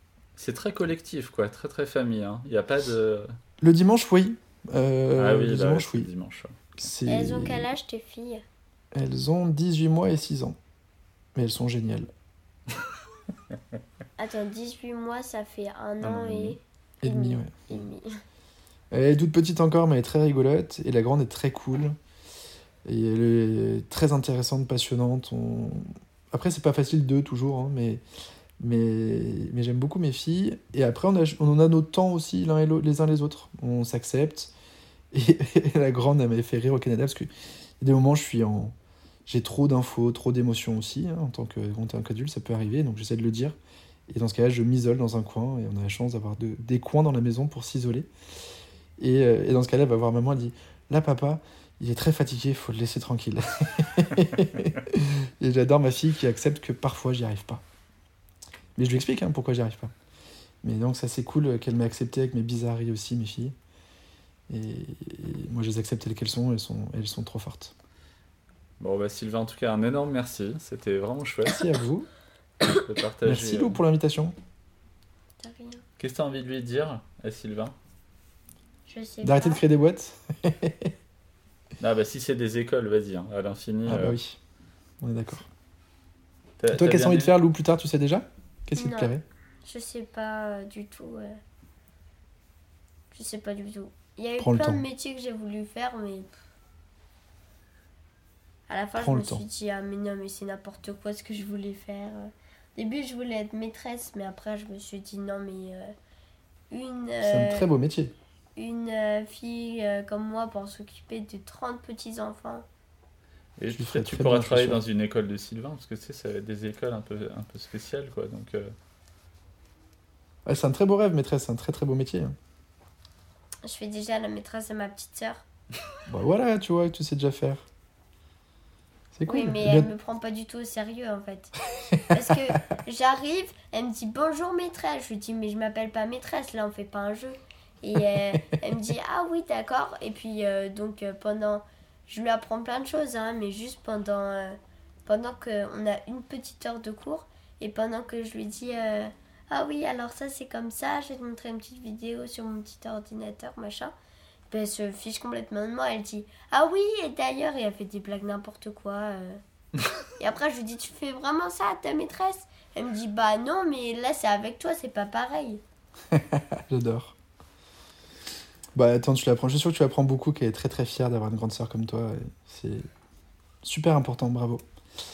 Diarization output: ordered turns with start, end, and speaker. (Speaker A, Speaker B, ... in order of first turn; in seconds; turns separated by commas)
Speaker A: 0.3-3.3, Speaker B: 3.6-6.1, Speaker A: 5.1-6.9, Speaker B: 6.8-7.7, Speaker C: 7.0-8.4, Speaker B: 8.9-10.6, Speaker B: 11.3-12.1, Speaker C: 14.2-18.2, Speaker A: 16.0-16.6, Speaker B: 17.0-17.5, Speaker B: 18.9-22.0, Speaker B: 22.8-28.0, Speaker B: 28.6-34.5, Speaker B: 35.1-38.7, Speaker B: 39.2-43.5, Speaker B: 44.1-48.1, Speaker B: 49.0-57.6, Speaker B: 58.8-59.9, Speaker B: 60.6-63.5, Speaker B: 64.5-67.7, Speaker A: 68.8-71.7, Speaker B: 71.5-72.1, Speaker A: 72.6-73.8, Speaker B: 73.2-74.3, Speaker C: 75.4-75.8, Speaker A: 76.0-77.7, Speaker C: 78.9-79.6, Speaker B: 79.2-80.9, Speaker A: 81.8-84.2, Speaker B: 83.8-84.4, Speaker B: 85.0-85.5, Speaker A: 86.6-87.3, Speaker B: 86.7-89.2, Speaker C: 88.8-89.1, Speaker C: 89.6-91.4, Speaker C: 93.1-96.3, Speaker B: 94.4-94.8, Speaker C: 98.7-105.9, Speaker B: 99.0-99.4, Speaker C: 106.7-107.7, Speaker B: 107.2-108.1, Speaker C: 108.5-112.7, Speaker A: 113.6-118.7, Speaker B: 113.7-114.8, Speaker B: 120.5-122.3, Speaker C: 123.6-125.4, Speaker B: 126.1-127.7, Speaker B: 129.1-129.9, Speaker C: 129.3-131.5, Speaker B: 131.8-132.3, Speaker C: 132.1-153.9, Speaker C: 154.5-159.4, Speaker C: 160.2-165.6, Speaker B: 166.1-167.2, Speaker B: 168.7-172.9, Speaker B: 173.6-174.6